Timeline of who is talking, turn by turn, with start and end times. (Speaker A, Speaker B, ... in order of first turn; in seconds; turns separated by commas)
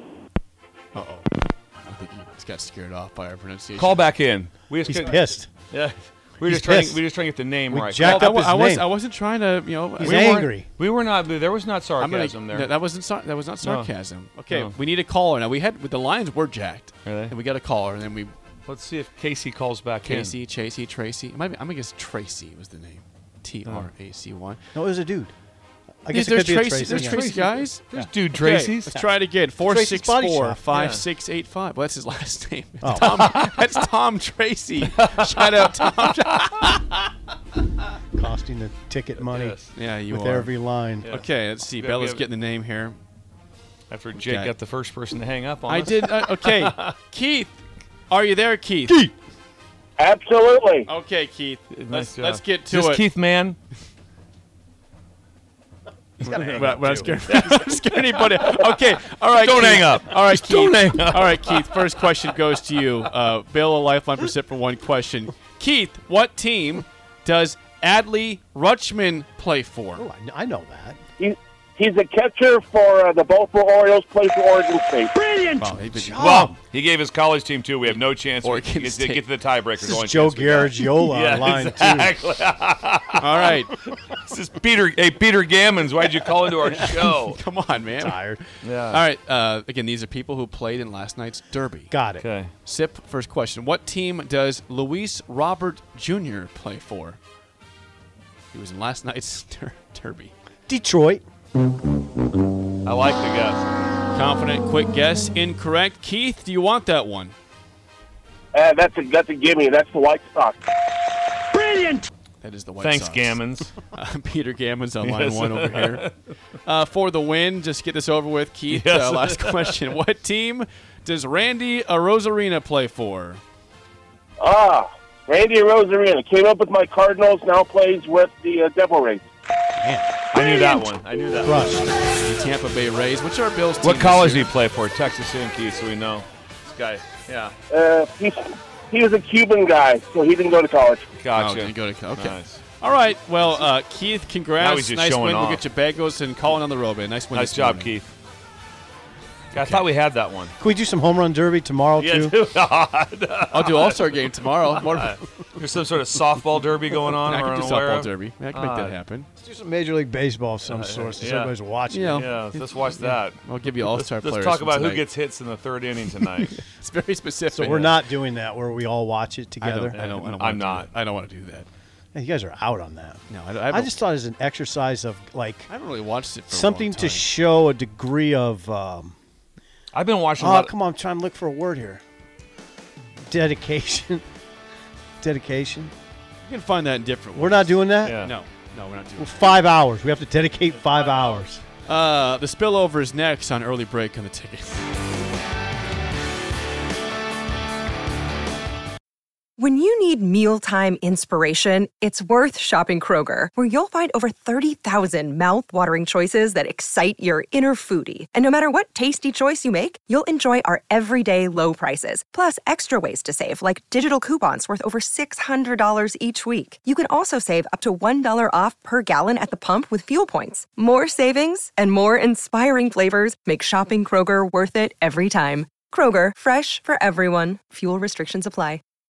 Speaker A: 0.9-4.1, Speaker B: 3.8-8.3, Speaker C: 4.8-5.5, Speaker C: 6.4-7.0, Speaker C: 7.7-8.9, Speaker A: 8.0-10.3, Speaker C: 10.0-10.7, Speaker B: 10.0-12.7, Speaker A: 12.0-18.3, Speaker B: 13.6-13.9, Speaker B: 14.5-14.8, Speaker B: 17.0-17.4, Speaker B: 18.7-20.4, Speaker A: 20.0-24.6, Speaker C: 24.8-25.3, Speaker C: 26.1-27.3, Speaker A: 26.1-37.0, Speaker B: 26.9-29.0, Speaker C: 29.6-30.6, Speaker B: 30.7-31.1, Speaker C: 32.8-33.3, Speaker B: 33.0-33.4, Speaker B: 35.0-35.9, Speaker C: 38.1-41.2, Speaker B: 39.2-39.7, Speaker A: 39.7-40.5, Speaker B: 41.0-42.2, Speaker A: 41.1-43.0, Speaker B: 43.9-46.9, Speaker A: 44.1-44.5, Speaker A: 45.7-47.6, Speaker A: 48.1-49.0, Speaker D: 50.0-50.9, Speaker A: 50.9-53.1, Speaker B: 51.7-53.6, Speaker A: 56.2-70.1, Speaker C: 56.2-57.5, Speaker B: 56.3-57.6, Speaker B: 59.3-61.9, Speaker C: 70.0-71.0, Speaker D: 71.2-75.2, Speaker C: 75.4-76.5, Speaker A: 75.6-76.5, Speaker B: 76.2-87.4, Speaker A: 77.9-79.2, Speaker C: 79.8-82.2, Speaker A: 83.2-83.7, Speaker A: 86.5-91.9, Speaker C: 88.0-88.4, Speaker B: 88.6-89.0, Speaker C: 91.9-92.3, Speaker B: 92.1-92.5, Speaker A: 92.7-97.2, Speaker A: 98.5-100.3, Speaker C: 100.7-101.2, Speaker B: 102.8-103.8, Speaker A: 104.1-107.3, Speaker D: 108.5-110.6, Speaker A: 112.4-116.1, Speaker B: 112.8-113.8, Speaker B: 115.0-116.1, Speaker A: 116.7-123.4, Speaker B: 118.7-119.9, Speaker D: 124.4-129.2, Speaker C: 129.8-130.1, Speaker B: 130.3-132.0, Speaker C: 131.4-131.8, Speaker A: 132.1-134.5, Speaker B: 133.8-137.5, Speaker D: 137.7-141.0, Speaker B: 141.2-142.6, Speaker A: 141.3-148.0, Speaker B: 144.6-145.7, Speaker B: 147.3-148.1, Speaker B: 149.5-150.6, Speaker A: 149.6-149.8, Speaker C: 150.6-152.4, Speaker B: 152.0-154.0, Speaker A: 153.5-155.2, Speaker B: 154.8-159.0, Speaker A: 157.1-159.3, Speaker C: 159.4-162.4, Speaker B: 160.7-161.6, Speaker A: 161.9-165.1, Speaker B: 162.1-166.6, Speaker A: 166.1-168.1, Speaker C: 167.5-170.0, Speaker A: 169.6-171.7, Speaker B: 169.9-170.9, Speaker C: 172.1-175.7, Speaker A: 173.3-174.0, Speaker A: 175.7-177.3, Speaker C: 176.5-179.2, Speaker B: 179.9-180.8, Speaker C: 180.4-182.0, Speaker C: 183.3-184.2, Speaker C: 185.2-185.9, Speaker A: 186.4-189.7, Speaker C: 187.3-188.3, Speaker B: 188.0-188.3, Speaker C: 189.2-191.6, Speaker A: 191.8-194.8, Speaker E: 199.6-228.8